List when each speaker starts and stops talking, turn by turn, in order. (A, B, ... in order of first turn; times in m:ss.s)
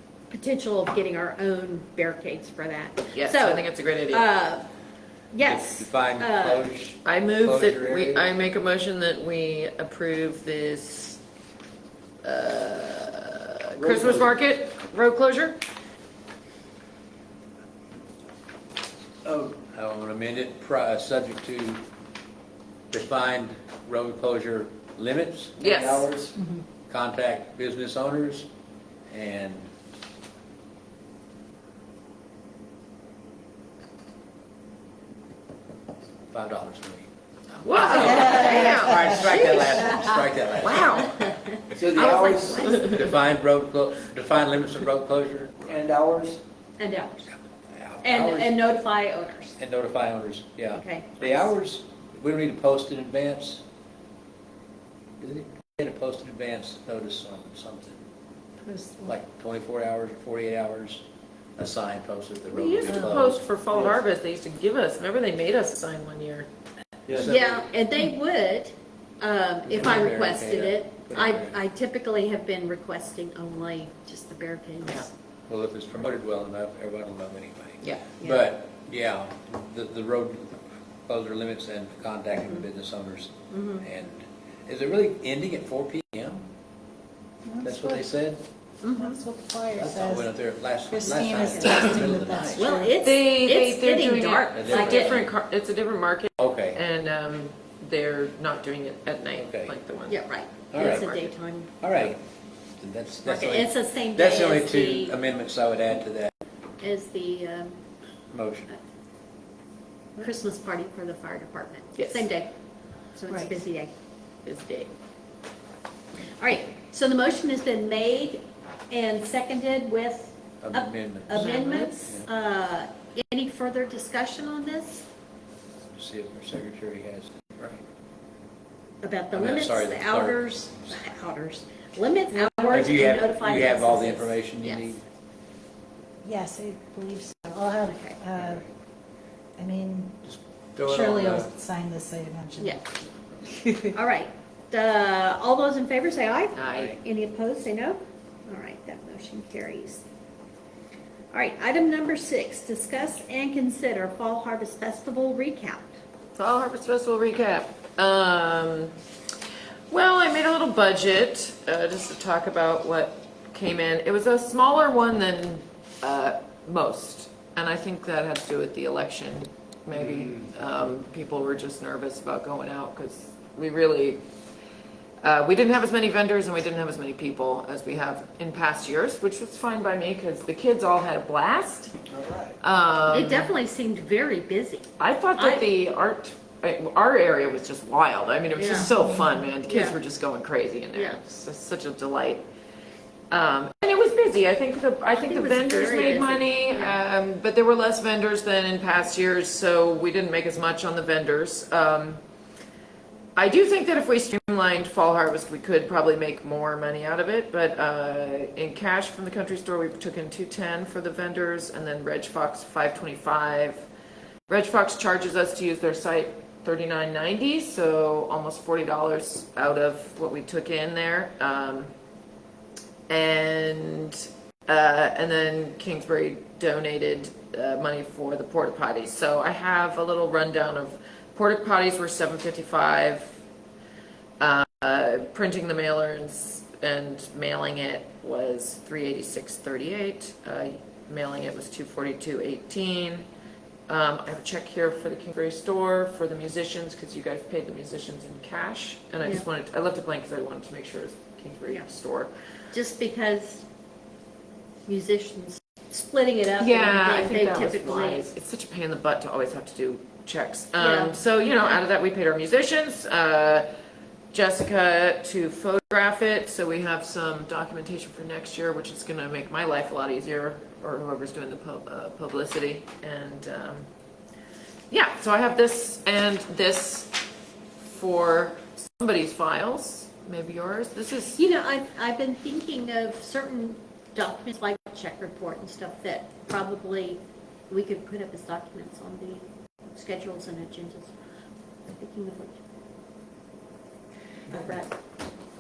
0:00.3-0:04.7 A
0:03.1-0:04.3 B
0:05.3-0:06.7 A
0:05.4-0:08.3 C
0:07.0-0:11.2 B
0:12.2-0:15.6 B
0:13.8-0:14.3 D
0:19.2-0:21.8 C
0:22.9-0:26.0 C
0:25.6-0:26.1 B
0:25.6-0:26.3 D
0:26.9-0:28.5 C
0:29.1-0:29.7 C
0:36.3-0:37.1 C
0:37.6-0:39.8 B
0:37.7-0:45.8 C
0:37.8-0:40.1 A
0:40.6-0:41.2 B
0:41.2-0:43.0 A
0:41.8-0:42.7 D
0:41.9-0:43.1 B
0:45.7-0:46.4 D
0:46.8-0:47.3 A
0:47.7-0:48.6 C
0:48.0-0:49.6 A
0:49.6-0:53.6 C
0:50.7-0:51.5 A
0:55.2-0:58.0 C
0:58.6-0:59.1 E
0:59.0-1:01.0 C
1:01.6-1:03.4 C
1:02.5-1:06.5 B
1:07.1-1:07.7 C
1:07.2-1:15.1 A
1:09.7-1:11.6 C
1:15.5-1:26.5 C
1:17.8-1:18.1 B
1:18.2-1:18.5 A
1:23.5-1:23.8 A
1:27.5-1:28.0 E
1:27.6-1:28.4 C
1:28.8-1:29.2 A
1:28.9-1:30.3 E
1:29.7-1:32.8 C
1:30.9-1:33.0 E
1:31.1-1:35.2 A
1:33.0-1:40.2 B
1:34.5-1:35.3 C
1:36.4-1:36.8 C
1:39.4-1:39.7 C
1:40.1-1:41.7 A
1:40.7-1:41.1 C
1:40.7-1:41.3 B
1:41.8-1:42.2 C
1:42.8-1:46.3 C
1:43.3-1:45.2 A
1:46.8-1:47.8 A
1:48.3-1:48.7 C
1:50.2-1:52.5 A
1:52.0-1:52.3 B
1:53.2-1:53.9 A
1:53.3-1:53.6 E
1:54.4-1:54.9 B
1:56.4-2:05.0 A
2:00.6-2:01.5 C
2:01.3-2:01.9 B
2:06.0-2:07.8 C
2:09.0-2:14.8 A
2:09.3-2:10.5 C
2:12.7-2:15.0 C
2:16.2-2:18.6 E
2:17.9-2:18.2 A
2:19.6-2:20.2 E
2:20.3-2:21.5 C
2:20.8-2:22.8 E
2:23.6-2:24.0 E
2:23.9-2:30.0 A
2:26.5-2:27.0 B
2:26.7-2:27.0 C
2:31.3-2:35.9 A
2:36.4-2:39.0 B
2:39.9-2:54.2 B
2:55.2-3:01.9 B
3:02.1-3:02.5 C
3:02.6-3:03.5 B
3:03.1-3:05.7 A
3:05.0-3:12.5 B
3:08.5-3:08.9 A
3:09.7-3:10.0 A
3:10.9-3:11.2 A
3:13.3-3:22.2 B
3:15.1-3:17.0 A
3:23.4-3:33.9 B
3:34.5-3:41.9 B
3:43.1-3:53.3 B
3:54.4-4:03.3 B
4:03.9-4:12.3 B
4:12.7-4:13.6 A
4:14.9-4:18.2 A
4:16.6-4:23.7 B
4:20.8-4:21.8 A
4:24.3-4:33.9 B
4:34.9-4:37.2 B
4:37.9-4:41.4 B
4:41.4-4:51.1 A
4:51.9-4:52.6 A
4:54.5-4:54.9 A